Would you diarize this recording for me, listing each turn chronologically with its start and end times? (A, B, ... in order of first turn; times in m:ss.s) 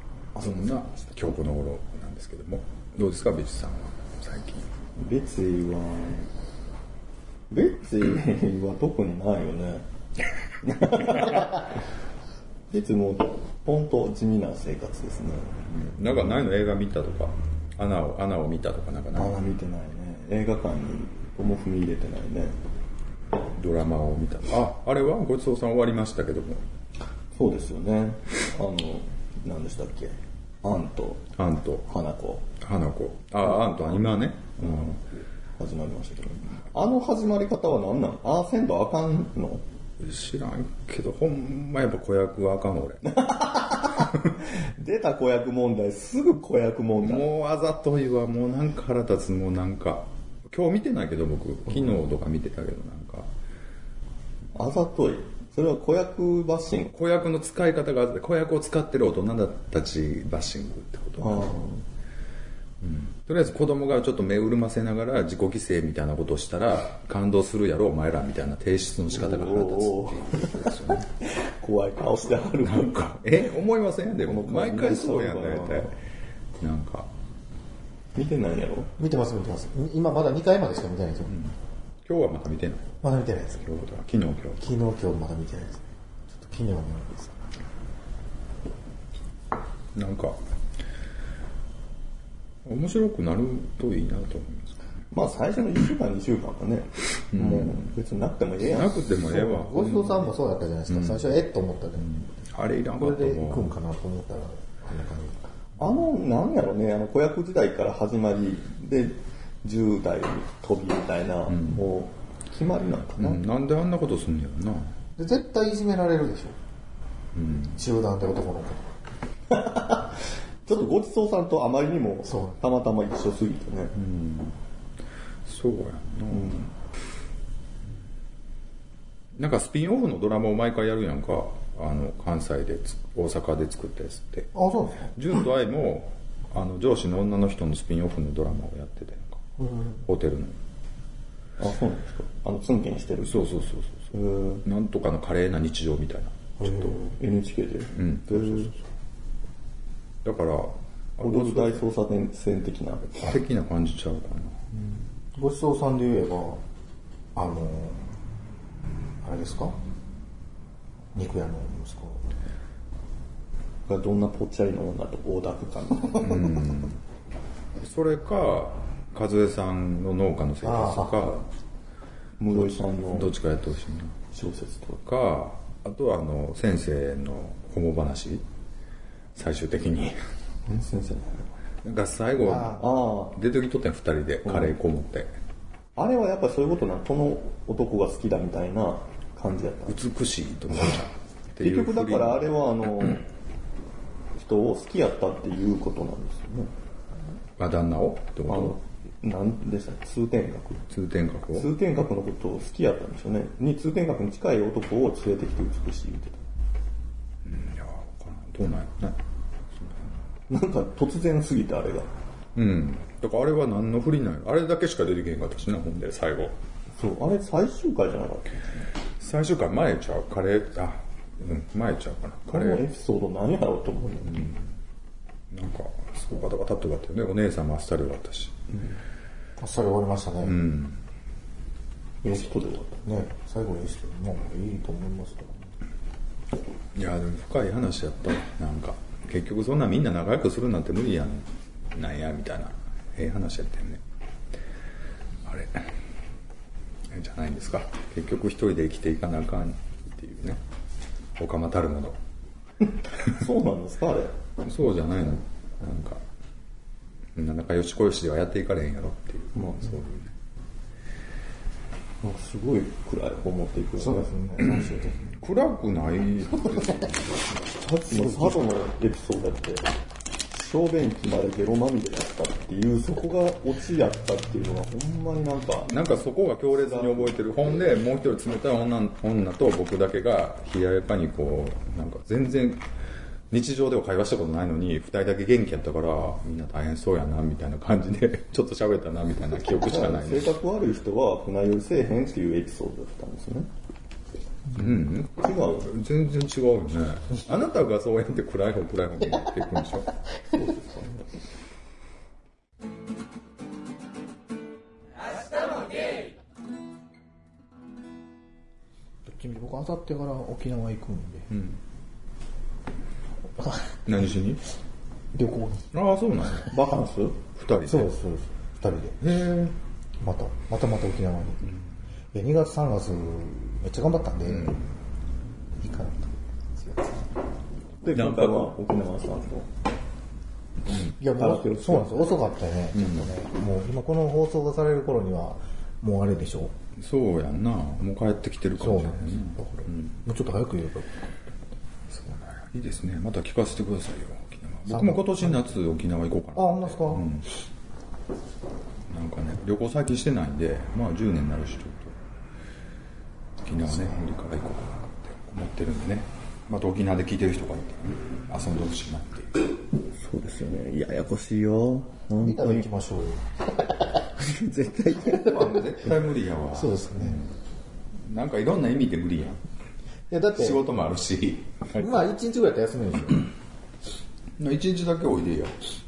0:00.4-0:00.9 A
0:00.4-0:04.7 B
0:05.0-0:06.3 A
0:07.5-0:09.8 A
0:10.6-0:11.8 A
0:12.7-0:15.7 A
0:15.7-0:19.4 B
0:19.2-0:22.6 A
0:23.6-0:26.6 B
0:27.4-0:31.3 A
0:31.4-0:31.9 B
0:31.9-0:32.5 A
0:32.6-0:35.0 B
0:35.6-0:39.6 A
0:40.0-0:43.1 B
0:43.0-0:47.2 A
0:47.0-0:53.3 B
0:54.6-0:56.9 A
0:56.9-1:01.5 B
1:01.2-1:01.8 A
1:02.8-1:11.1 B
1:09.1-1:13.1 A
1:12.6-1:15.9 B
1:14.2-1:15.9 A
1:16.6-1:17.1 B
1:18.2-1:18.9 A
1:19.0-1:21.4 C
1:22.0-1:22.9 B
1:23.0-1:23.7 C
1:23.6-1:24.6 B
1:24.6-1:27.4 C
1:29.9-1:30.4 B
1:32.6-1:34.8 B
1:35.1-1:39.0 A
1:37.3-1:37.9 B
1:38.6-1:40.4 B
1:39.2-1:42.2 C
1:40.9-1:41.3 B
1:42.0-1:43.7 B
1:43.0-1:45.4 C
1:45.8-1:53.4 A
1:51.5-1:51.8 B
1:53.2-1:54.9 B
1:55.2-1:56.6 C
1:57.4-1:57.8 B
1:57.8-1:58.8 C
1:59.5-2:04.0 A
2:02.3-2:02.6 C
2:04.0-2:04.6 B
2:05.4-2:06.7 B
2:06.3-2:06.6 A
2:09.4-2:14.5 B
2:14.5-2:15.2 C
2:15.1-2:19.4 B
2:19.6-2:20.0 C
2:20.1-2:20.6 B
2:21.6-2:23.5 A
2:23.2-2:27.0 B
2:24.1-2:24.6 A
2:26.6-2:27.1 C
2:27.1-2:28.7 A
2:28.0-2:28.7 B
2:30.2-2:31.8 B
2:31.2-2:33.3 A
2:33.2-2:34.6 B
2:34.7-2:36.6 C
2:37.4-2:38.0 C
2:39.2-2:39.8 C
2:41.2-2:42.3 C
2:43.9-2:46.6 A
2:46.2-2:47.0 B
2:47.8-2:51.5 B
2:50.6-2:51.2 C
2:52.4-2:53.4 A
2:52.5-2:54.2 B
2:54.3-2:55.0 A
2:55.0-2:58.4 B
2:59.4-3:00.2 B
3:00.7-3:01.5 A
3:01.8-3:05.3 B
3:02.4-3:02.8 C
3:02.8-3:03.4 A
3:04.5-3:04.7 A
3:06.0-3:10.0 A
3:09.9-3:12.5 B
3:11.6-3:13.3 A
3:14.4-3:16.7 A
3:17.6-3:18.8 B
3:18.5-3:20.9 A
3:20.9-3:21.7 B
3:21.5-3:26.5 A
3:27.4-3:29.2 B
3:29.7-3:30.2 B
3:30.5-3:32.1 A
3:32.6-3:36.6 B
3:37.0-3:38.9 A
3:39.2-3:42.8 B
3:42.5-3:44.5 A
3:44.3-3:44.6 B
3:45.5-3:48.6 B
3:48.7-3:49.0 A
3:49.6-3:50.6 C
3:50.4-3:51.0 B
3:52.2-3:53.0 A
3:53.0-3:55.6 C
3:57.0-4:04.0 B
4:05.4-4:05.9 B
4:07.1-4:10.6 B
4:11.4-4:12.2 B
4:13.2-4:14.3 A
4:14.6-4:16.2 B
4:17.4-4:20.3 B
4:19.6-4:19.9 A
4:22.2-4:24.5 A
4:24.0-4:25.3 C
4:24.6-4:27.4 B
4:27.8-4:29.9 A
4:28.2-4:28.5 C
4:30.5-4:36.1 A
4:35.9-4:42.9 B
4:36.8-4:37.7 A
4:43.5-4:50.6 B
4:49.8-4:53.7 A
4:54.8-5:00.1 B
4:55.4-4:55.9 A
5:00.7-5:01.0 A
5:09.3-5:11.5 C
5:11.5-5:11.8 B
5:13.6-5:14.0 C
5:14.1-5:14.6 B
5:15.3-5:15.9 C
5:15.9-5:16.7 B
5:16.7-5:17.4 A
5:17.6-5:18.1 B
5:17.8-5:19.2 C
5:19.2-5:19.8 B
5:20.2-5:21.6 C
5:22.3-5:24.8 C
5:24.5-5:24.8 B
5:25.8-5:27.2 C
5:28.0-5:29.7 A
5:28.1-5:28.8 B
5:31.2-5:36.7 C
5:31.2-5:32.4 A
5:32.9-5:33.3 B
5:37.0-5:40.2 B
5:38.8-5:41.2 C
5:42.1-5:47.5 B
5:44.9-5:45.7 C
5:46.6-5:47.3 C
5:49.1-5:52.2 B
5:53.6-5:59.7 B
6:00.1-6:02.9 A
6:02.4-6:03.5 C
6:04.4-6:06.0 A
6:05.3-6:07.5 B
6:06.7-6:07.4 C
6:08.2-6:09.6 B
6:10.3-6:10.8 C
6:10.6-6:12.2 B
6:12.0-6:13.5 C
6:14.6-6:15.8 B